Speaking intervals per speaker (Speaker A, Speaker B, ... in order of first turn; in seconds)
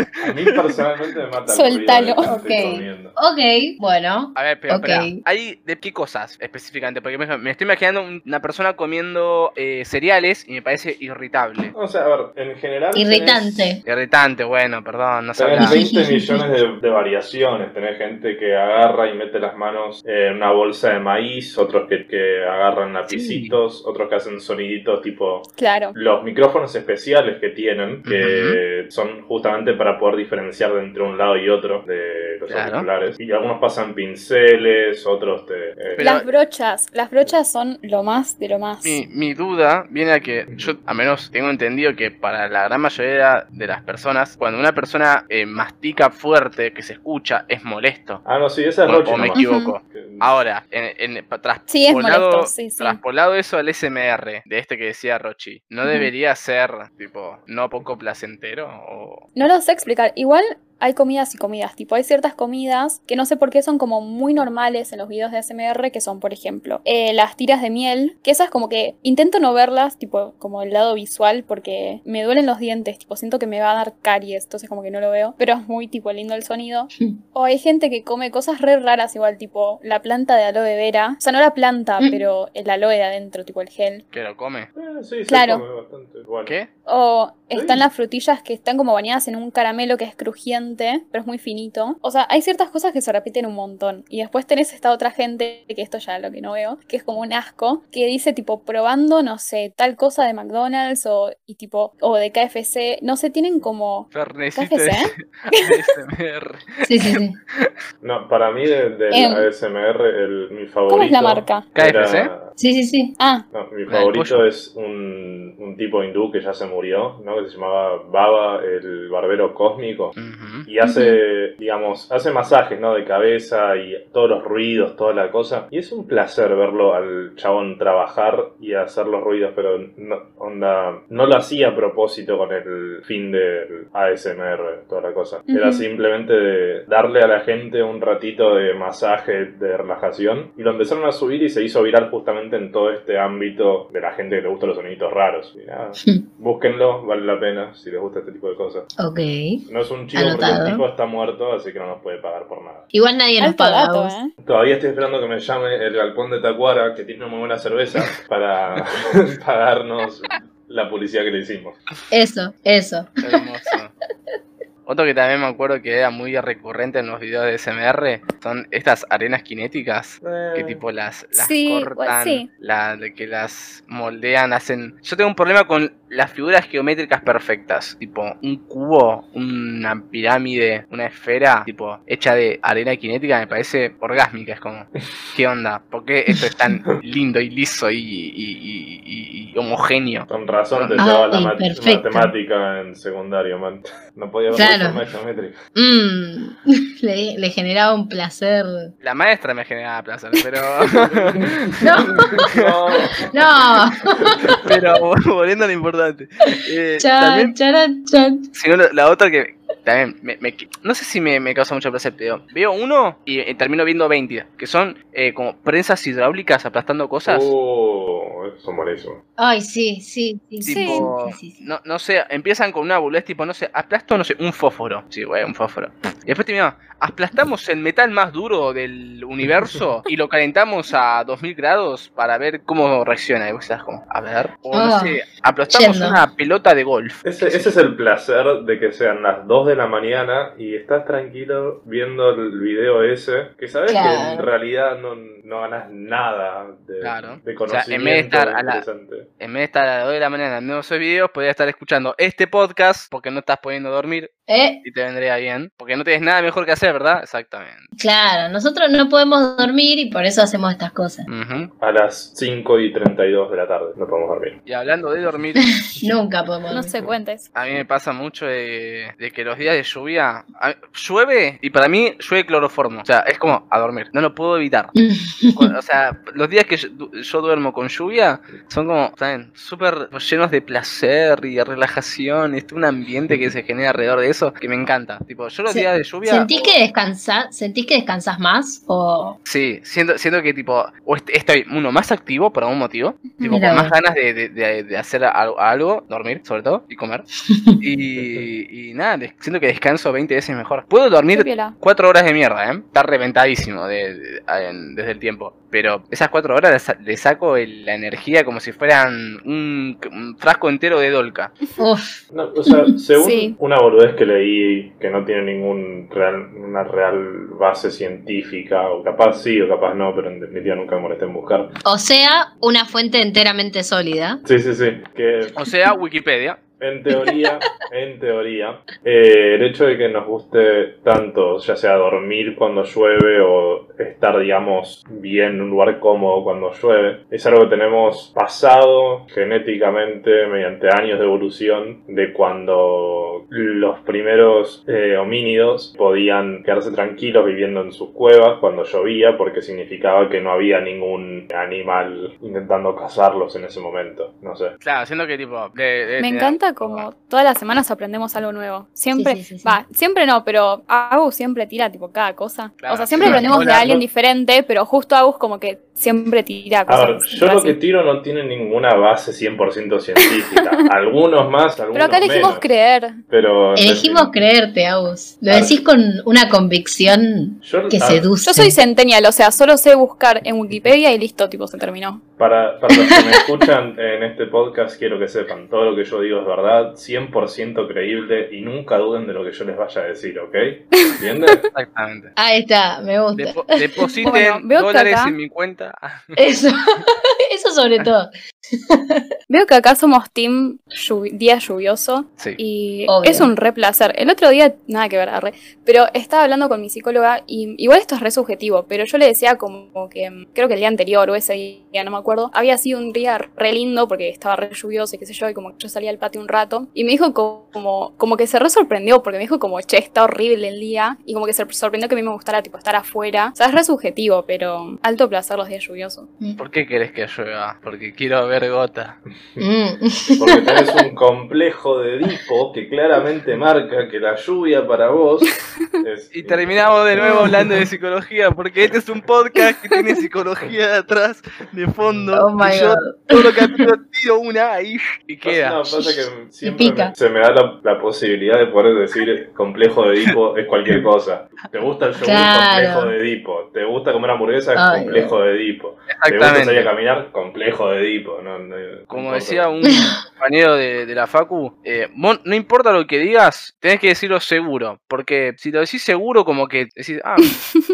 Speaker A: 0.2-3.1, 11.7-13.8, 15.4-36.0, 48.2-50.4, 84.8-86.6, 87.5-87.8, 108.0-112.5, 113.5-120.2, 120.7-148.9, 149.7-152.9, 154.4-161.8, 170.2-170.8, 190.3-195.6, 201.1-204.7, 217.2-219.2, 237.2-249.3, 261.8-264.6, 298.2-298.5, 312.3-321.7, 324.4-325.7, 326.8-354.8, 363.2-364.0, 366.9-372.7, 373.3-374.3, 375.5-375.8, 377.6-378.3, 382.4-391.7, 430.3-437.8, 442.0-442.3, 445.4-459.8
Speaker B: 0.5-0.8, 4.4-11.7, 13.8-15.8, 23.1-23.6, 28.1-28.6, 32.5-32.9, 35.9-36.3, 38.8-48.2, 48.9-59.3, 84.1-84.7, 104.1-107.7, 111.8-112.3, 113.9-114.4, 120.2-120.7, 163.2-163.9, 164.9-191.1, 199.0-201.9, 202.5-203.0, 204.6-207.6, 208.5-217.5, 220.6-237.7, 247.0-248.8, 249.4-254.3, 254.8-257.9, 261.3-261.7, 264.7-265.7, 267.5-274.9, 275.5-286.8, 289.4-297.3, 297.8-311.5, 325.6-326.6, 354.8-357.1, 362.8-363.9, 391.8-392.3, 393.4-396.4, 426.6-429.2, 436.3-445.8, 456.1-456.9, 459.1-467.5
Speaker C: 1.5-2.4, 25.6-26.0, 36.0-39.0, 49.4-49.7, 51.7-53.0, 59.4-84.0, 85.3-85.6, 86.9-105.1, 109.1-109.5, 110.9-111.7, 113.2-113.5, 120.8-121.2, 135.5-135.8, 153.4-154.3, 171.3-172.5, 220.7-221.1, 266.7-267.5, 301.3-301.7, 313.2-313.6, 356.2-367.8, 371.9-373.2, 378.4-382.2, 394.2-395.4, 399.5-426.3
Speaker D: 2.2-5.2, 12.9-13.8, 15.6-16.4, 106.8-107.4, 112.6-113.2, 149.0-149.6, 150.1-150.8, 152.9-154.2, 162.1-163.2, 191.0-192.3, 194.5-195.0, 195.8-198.9, 201.8-202.4, 203.3-204.6, 207.0-208.5, 219.4-221.6, 234.7-236.2, 243.9-244.5, 254.5-254.8, 258.0-261.3, 265.9-267.0, 275.0-275.7, 285.7-289.4, 293.5-293.9, 297.5-297.8, 311.8-312.8, 321.9-324.4, 327.1-327.6, 359.1-359.8, 373.8-378.8, 392.4-394.1, 396.4-399.3, 403.1-403.5, 429.6-431.0, 437.2-437.7, 442.3-443.9, 445.9-447.1, 452.2-453.1, 454.8-455.4, 459.8-460.1